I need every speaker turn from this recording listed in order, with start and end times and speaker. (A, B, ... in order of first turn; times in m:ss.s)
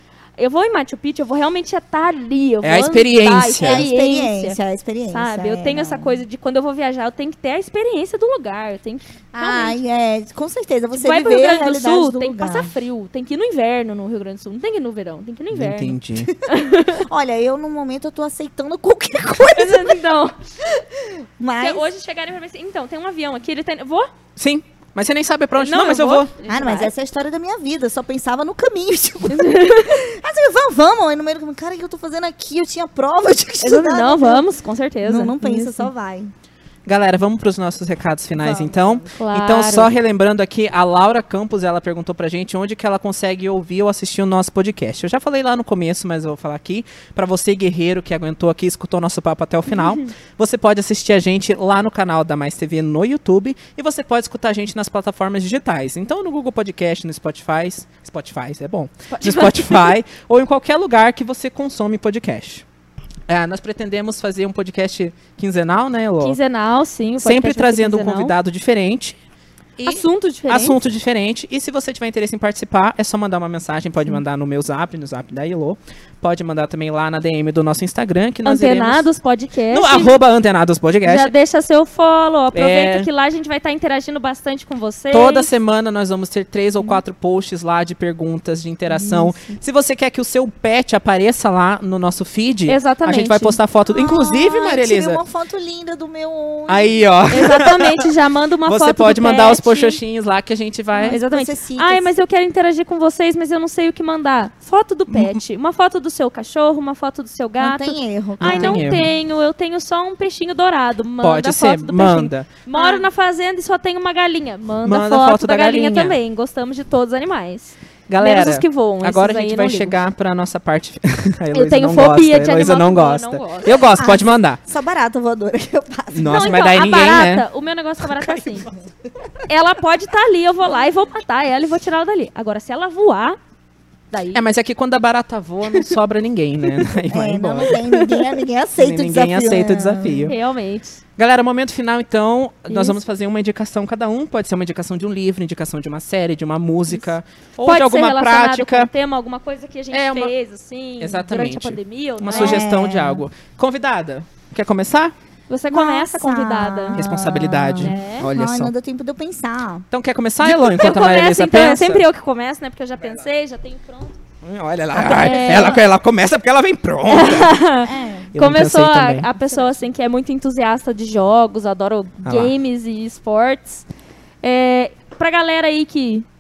0:00.4-0:04.6 A
0:02.6-0:03.8 B
0:03.6-0:06.2 C
0:05.1-0:09.8 A
0:09.3-0:12.7 C
0:11.0-0:17.0 A
0:15.5-0:16.3 B
0:16.5-0:20.0 C
0:19.6-0:20.4 A
0:20.6-0:21.8 C
0:21.6-0:24.1 A
0:24.4-0:26.3 B
0:25.6-0:26.9 A
0:26.5-0:34.5 C
0:29.3-0:30.0 A
0:33.6-0:35.9 A
0:35.0-0:36.3 C
0:36.9-1:02.6 B
0:38.4-0:39.1 C
0:39.2-0:39.9 A
0:59.1-0:59.9 A
1:03.3-1:06.4 B
1:06.2-1:08.4 A
1:07.2-1:09.2 B
1:09.8-1:19.1 B
1:09.8-1:10.8 A
1:18.4-1:20.1 A
1:19.7-1:21.3 B
1:21.0-1:25.5 A
1:22.5-1:23.1 B
1:25.1-1:35.2 B
1:29.0-1:29.6 A
1:32.7-1:33.6 A
1:33.9-1:37.0 C
1:36.7-1:38.1 B
1:37.3-1:40.0 A
1:38.6-1:41.2 B
1:41.0-1:42.1 C
1:41.1-2:00.0 A
1:45.1-1:45.4 B
1:47.6-1:48.9 C
1:48.4-1:49.1 B
1:51.2-1:52.5 B
1:52.7-1:53.0 C
1:54.8-1:56.2 B
1:58.1-2:04.6 B
2:01.5-2:03.9 A
2:04.0-2:06.6 C
2:06.1-2:07.4 B
2:06.2-2:08.7 A
2:08.1-2:08.7 B
2:09.5-2:13.4 A
2:14.1-2:14.4 A
2:14.3-2:17.8 B
2:17.1-2:20.3 C
2:17.7-2:18.1 A
2:18.8-2:20.4 B
2:20.3-2:21.0 A
2:21.2-2:28.9 B
2:22.7-2:23.0 A
2:27.6-2:32.6 A
2:29.9-2:30.3 B
2:31.0-2:35.1 B
2:32.3-2:33.2 C
2:35.5-2:37.0 A
2:35.7-2:39.9 C
2:37.0-2:38.7 B
2:37.8-2:38.3 A
2:39.9-2:42.0 B
2:40.4-2:44.2 A
2:44.4-2:47.6 B
2:44.9-2:45.8 C
2:45.1-2:45.8 A
2:47.0-2:53.8 A
2:47.8-2:48.3 C
2:48.3-2:49.3 B
2:52.2-2:52.5 B
2:54.4-2:56.3 A